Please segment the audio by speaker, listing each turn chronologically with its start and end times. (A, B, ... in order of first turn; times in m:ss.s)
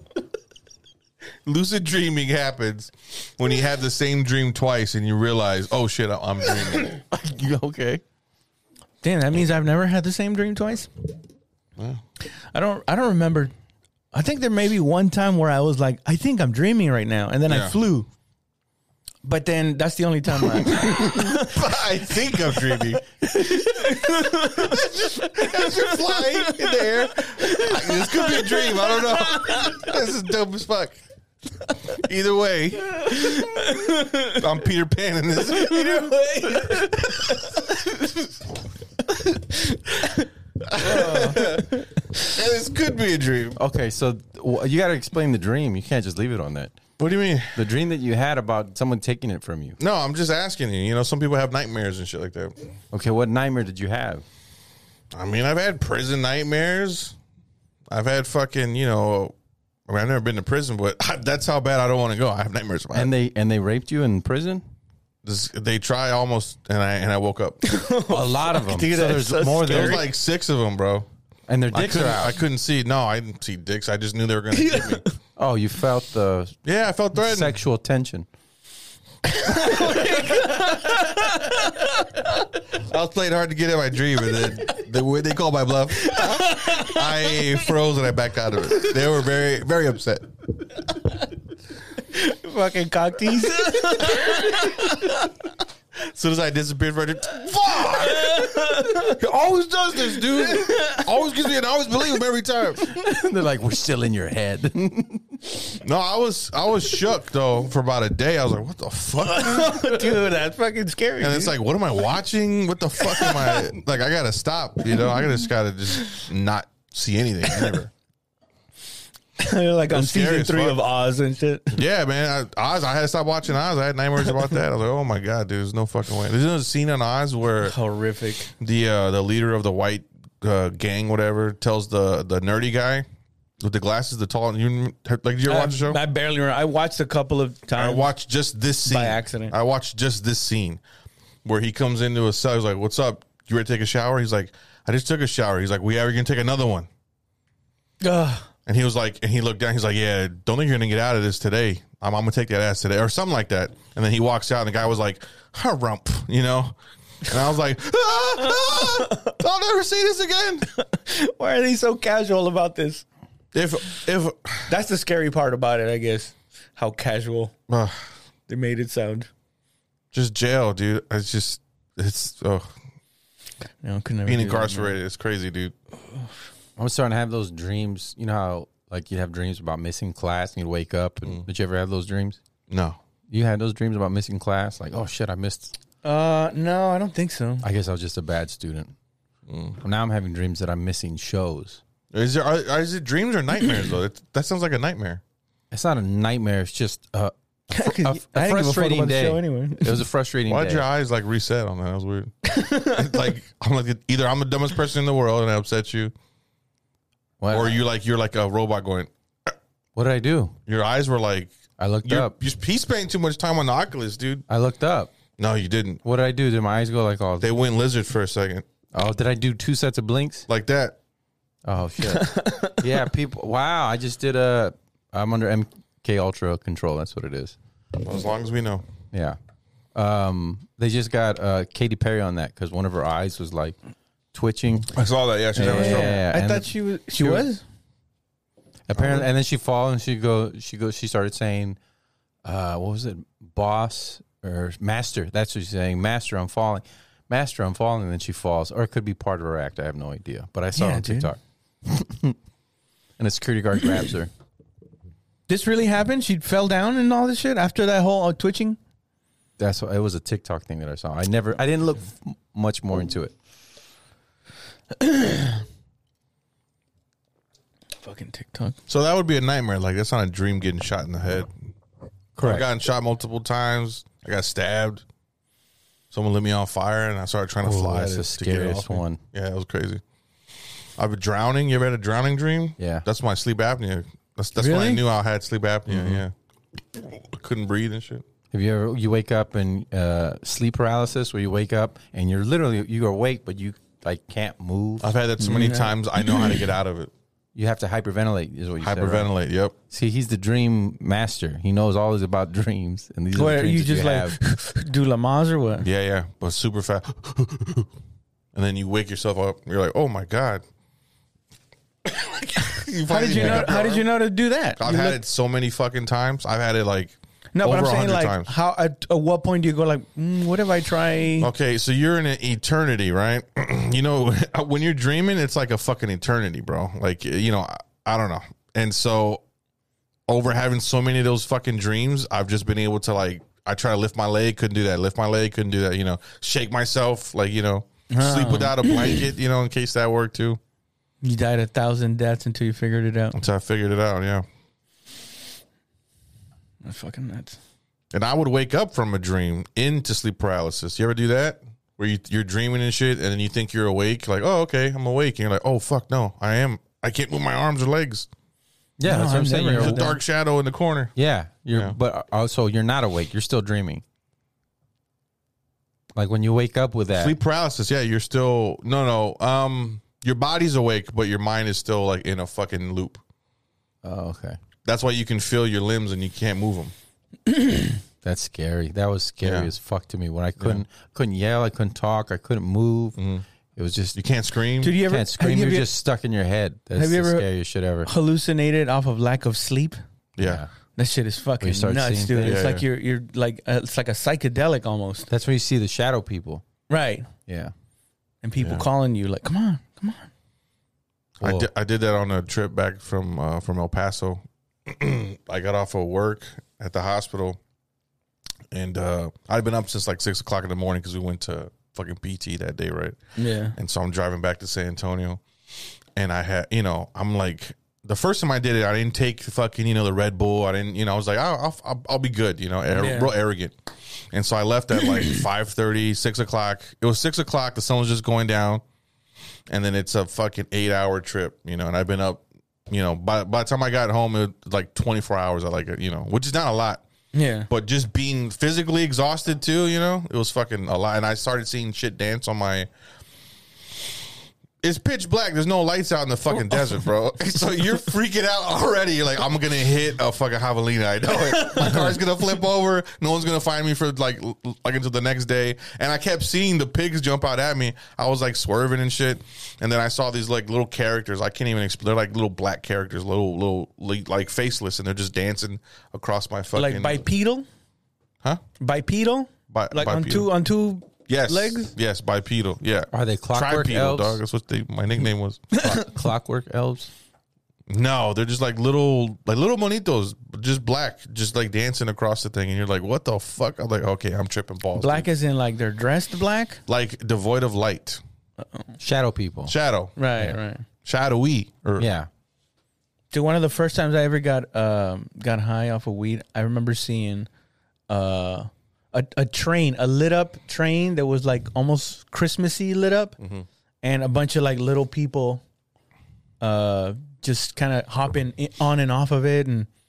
0:01.4-0:07.0 A
0:06.4-0:08.0 B
0:09.0-0:10.9 C
0:12.5-0:13.5 C
0:14.1-0:18.1 C
0:17.5-0:17.8 A
0:19.2-0:21.6 C
0:20.7-0:23.0 A
0:22.3-0:29.9 C
0:24.1-0:31.0 A
0:31.9-0:36.9 A
0:33.1-0:34.4 C
0:35.4-0:37.9 C
0:39.1-0:41.8 C
0:40.7-0:43.6 A
0:43.5-0:46.8 B
0:47.0-0:47.6 A
0:47.5-0:49.8 B
0:49.8-0:52.5 A
0:52.9-0:54.2 B
0:55.1-0:57.2 A
0:57.9-0:59.3 A
0:59.9-1:03.1 A
1:02.9-1:04.6 B
1:05.2-1:07.6 A
1:07.6-1:10.0 C
1:08.1-1:10.1 B
1:09.6-1:11.1 A
1:11.5-1:12.4 B
1:11.7-1:15.0 A
1:14.5-1:15.1 C
1:15.4-1:16.6 B
1:16.6-1:17.6 A
1:17.1-1:18.3 B
1:19.2-1:22.2 C
1:22.8-1:30.3 A
1:26.0-1:27.5 C
1:32.0-1:35.2 C
1:34.4-1:34.6 A
1:36.0-1:42.9 A
1:37.9-1:39.2 C
1:40.1-1:41.1 C
1:42.8-1:45.4 B
1:45.8-1:50.1 A
1:49.2-1:51.5 C
1:51.2-1:57.9 A
1:53.0-1:53.7 C
1:57.5-1:57.7 C
1:59.4-2:01.8 C
1:59.9-2:00.8 A
2:01.7-2:07.8 A
2:07.6-2:08.5 C
2:08.6-2:13.0 A
2:13.6-2:16.0 A
2:15.4-2:18.1 C
2:17.8-2:20.8 A
2:18.8-2:19.5 C
2:21.4-2:26.9 A
2:28.0-2:28.5 C
2:28.6-2:40.7 A
2:38.5-2:39.4 C
2:40.7-2:43.0 C
2:43.5-2:44.7 A
2:44.7-2:47.5 C
2:47.7-2:48.0 A
2:48.5-2:49.3 C
2:50.1-2:52.7 A
2:53.8-2:54.9 C
2:54.2-2:55.7 A
2:56.8-3:02.4 B
3:02.7-3:03.0 A
3:03.3-3:05.8 B
3:06.0-3:07.7 C
3:07.6-3:08.9 B
3:09.5-3:09.8 A
3:09.8-3:11.8 B
3:12.1-3:15.2 A
3:15.7-3:20.8 B
3:17.7-3:20.0 C
3:20.5-3:26.1 A
3:22.4-3:23.3 C
3:27.4-3:27.8 B
3:27.5-3:29.1 A
3:29.9-3:30.6 B
3:30.7-3:34.4 A
3:31.8-3:32.3 B
3:34.5-3:35.1 B
3:35.4-3:36.0 A
3:36.0-3:37.5 B
3:37.4-3:38.6 A
3:38.9-3:40.4 B
3:40.5-3:41.0 A
3:41.6-3:47.6 B
3:42.1-3:42.8 C
3:48.0-3:48.8 A
3:49.1-3:49.4 B
3:49.9-3:53.8 B
3:54.3-3:54.9 B
3:54.9-3:56.2 A
3:55.5-3:57.4 B
3:55.6-3:57.6 C
3:58.9-4:01.8 B
3:58.9-3:59.3 A
4:02.4-4:12.4 B
4:10.7-4:11.3 C
4:13.2-4:14.3 B
4:15.5-4:18.8 C
4:19.6-4:23.3 B
4:24.9-4:25.6 C
4:28.0-4:28.8 C
4:28.9-4:31.5 A
4:32.4-4:32.7 B
4:32.4-4:35.0 A
4:36.1-4:40.0 A
4:37.6-4:39.2 B
4:41.0-4:46.3 A
4:42.8-4:43.0 B
4:44.6-4:45.0 C
4:45.9-4:46.2 B
4:46.9-4:48.2 A
4:48.5-4:55.1 B
4:55.0-4:57.1 A
4:55.4-4:56.6 C
4:57.5-4:59.3 B
4:58.8-4:59.7 A
4:59.9-5:04.4 B
5:03.3-5:05.8 C
5:05.8-5:07.9 A
5:08.5-5:10.6 A
5:12.0-5:14.1 A
5:12.6-5:15.2 C
5:13.3-5:13.7 B
5:14.8-5:18.5 A
5:17.5-5:21.5 C
5:21.4-5:29.4 A
5:30.3-5:40.6 A
5:38.1-5:39.2 C
5:41.2-5:43.4 C
5:43.3-5:44.4 A
5:46.8-5:47.6 C
5:48.1-5:58.3 A
5:59.0-6:00.1 B
5:59.0-6:00.2 C
5:59.7-6:01.1 A
6:01.2-6:04.0 B
6:06.1-6:07.3 B
6:07.2-6:13.2 A
6:14.0-6:14.6 B
6:14.8-6:16.9 A
6:17.5-6:18.0 C
6:18.2-6:23.2 B
6:19.4-6:19.7 A
6:23.2-6:23.4 A
6:23.7-6:24.2 B
6:24.1-6:25.0 A
6:24.8-6:25.9 C
6:25.0-6:28.1 B
6:26.9-6:27.5 C
6:28.0-6:30.0 C
6:30.4-6:30.6 A
6:30.4-6:30.7 B
6:31.0-6:35.3 C
6:31.6-6:32.6 B
6:32.4-6:32.8 A
6:35.3-6:36.6 B
6:36.9-6:37.3 C
6:37.5-6:37.7 B
6:38.4-6:40.3 C
6:38.6-6:38.8 A
6:41.4-6:41.7 B
6:41.4-6:47.6 A
6:48.7-6:53.2 A
6:53.4-6:53.8 C
6:53.7-6:55.4 A
6:56.2-7:03.7 A
7:02.9-7:03.3 C
7:04.3-7:08.8 A
7:05.1-7:05.4 C
7:09.7-7:17.0 A
7:17.3-7:17.7 C
7:17.7-7:22.9 A
7:24.8-7:47.2 A
7:31.4-7:32.2 C
7:46.7-7:47.6 C
7:48.8-7:51.9 C
7:49.7-7:50.5 A
7:51.3-7:55.8 A
7:53.1-7:54.4 B
7:55.7-7:56.0 C
7:55.8-7:57.1 B
7:57.9-8:05.2 A
8:04.9-8:06.8 C
8:06.9-8:08.2 A
8:09.0-8:09.7 B
8:09.7-8:10.2 A
8:10.2-8:10.8 C
8:11.0-8:12.1 A
8:12.0-8:12.3 B
8:13.3-8:17.5 C
8:18.1-8:23.4 C
8:23.4-8:23.6 A
8:24.0-8:25.6 C
8:26.6-8:29.9 C